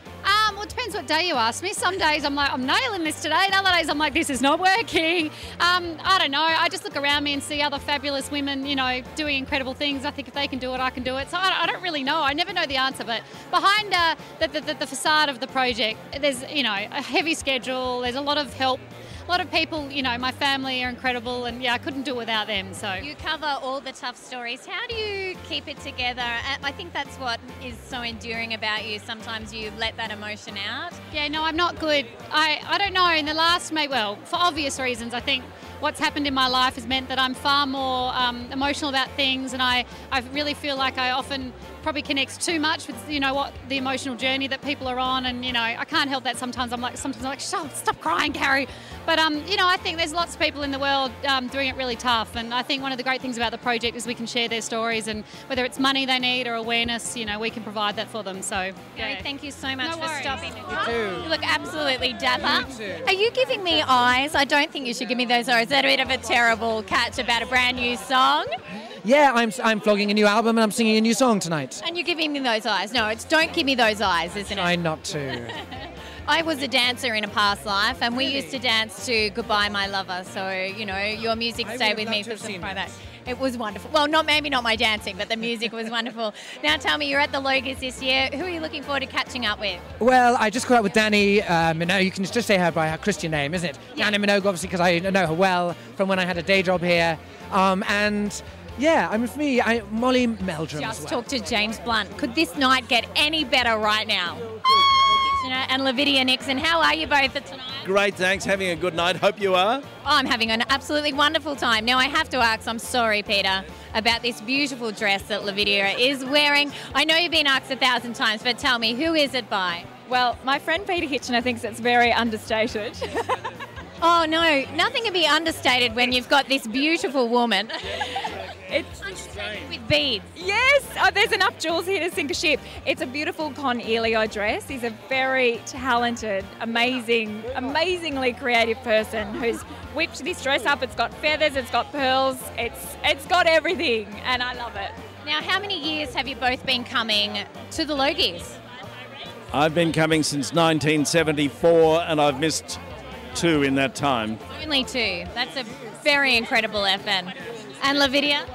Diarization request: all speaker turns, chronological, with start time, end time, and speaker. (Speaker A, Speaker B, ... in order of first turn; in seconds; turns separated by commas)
Speaker A: 0.2-23.1, Speaker B: 23.0-31.0, Speaker A: 31.1-59.2, Speaker B: 58.9-68.5, Speaker A: 59.8-60.4, Speaker C: 60.9-61.2, Speaker C: 69.0-71.8, Speaker B: 71.8-74.8, Speaker C: 74.4-75.5, Speaker B: 75.5-89.8, Speaker C: 78.2-78.5, Speaker C: 81.6-82.8, Speaker C: 90.0-101.2, Speaker B: 100.7-107.9, Speaker D: 107.8-109.8, Speaker B: 110.0-119.9, Speaker E: 120.1-123.4, Speaker B: 124.0-128.4, Speaker E: 128.7-129.0, Speaker B: 129.0-130.3, Speaker E: 130.3-144.9, Speaker B: 145.2-148.6, Speaker D: 149.5-152.8, Speaker D: 153.3-154.4, Speaker B: 154.5-158.5